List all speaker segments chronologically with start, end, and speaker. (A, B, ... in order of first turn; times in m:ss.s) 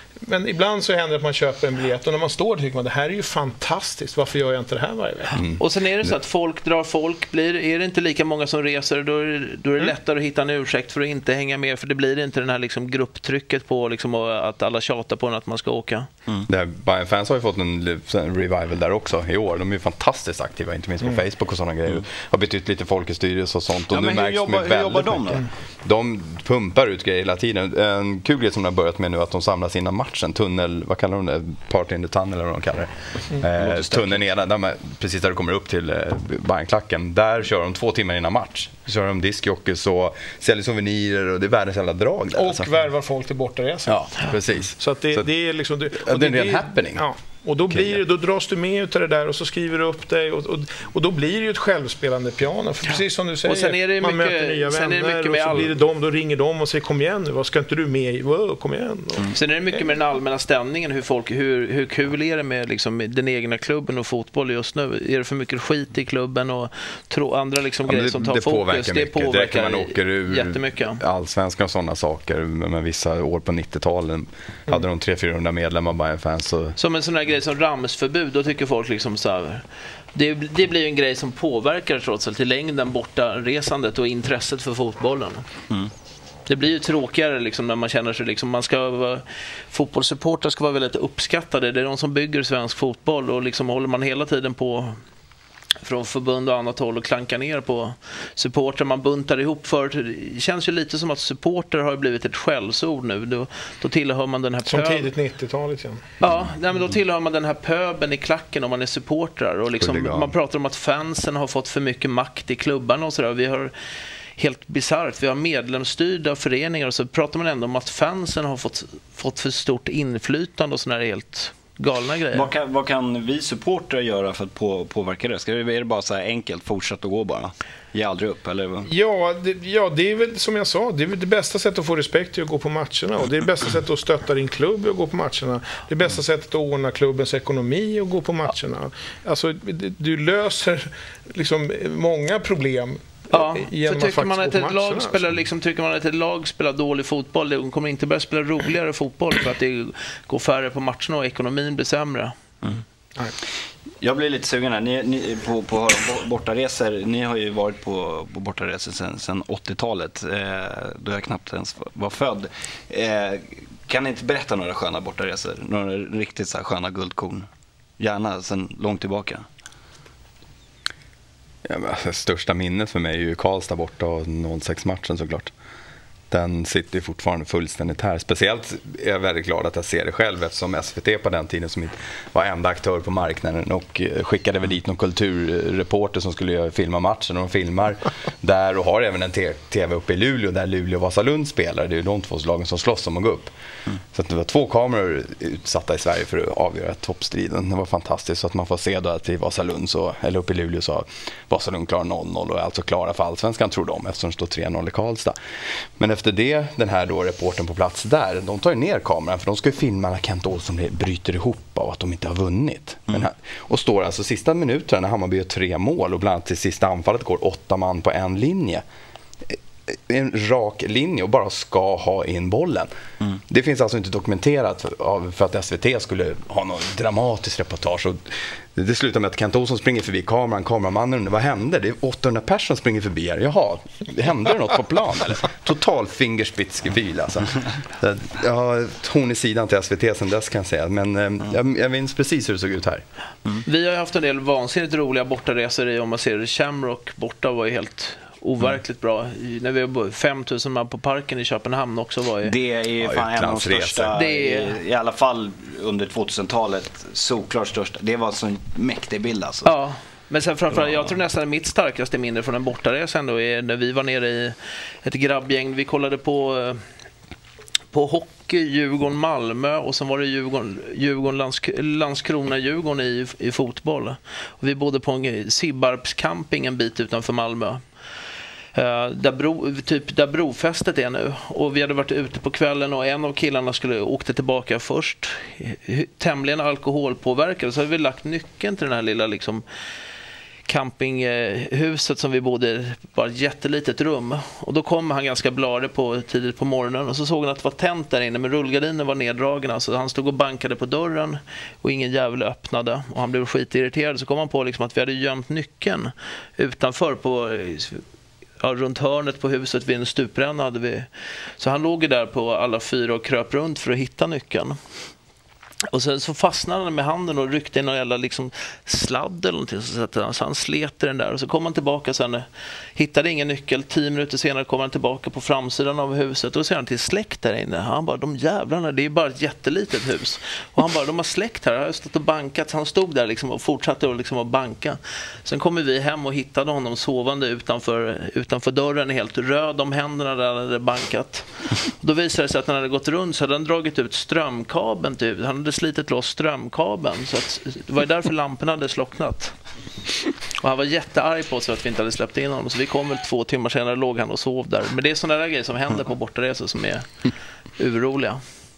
0:00.2-0:05.4 A
0:05.3-0:05.6 B
0:05.6-0:16.1 C
0:16.5-0:42.7 B
0:23.9-0:25.4 D
0:33.6-0:34.3 D
0:42.3-0:44.1 A
0:43.9-0:45.3 B
0:44.8-0:59.9 A
0:45.9-0:47.0 B
0:47.7-0:48.0 B
0:53.4-0:55.7 C
0:59.3-1:11.0 C
1:07.8-1:16.8 B
1:16.8-1:25.4 C
1:26.5-1:35.0 C
1:35.8-1:45.1 C
1:44.6-1:46.0 A
1:46.2-1:53.7 C
1:49.8-1:50.3 B
1:54.4-2:02.5 C
2:02.3-2:08.9 D
2:08.8-2:25.2 A
2:23.3-2:32.3 C
2:34.0-2:47.5 D
2:48.0-2:49.4 D
2:51.6-2:55.5 B
2:56.3-3:13.5 B
3:14.1-3:25.4 B
3:26.0-3:38.8 B
3:39.5-3:42.9 B
3:43.5-4:03.0 B
4:03.6-4:12.5 C
4:12.4-4:19.7 D
4:13.0-4:14.2 B
4:14.1-4:14.8 C
4:19.6-4:26.8 C
4:27.9-4:37.8 C
4:38.7-4:49.6 C
4:50.6-5:08.0 C
5:08.6-5:14.8 C
5:15.9-5:49.5 C
5:50.6-5:57.0 C
5:57.8-5:58.4 C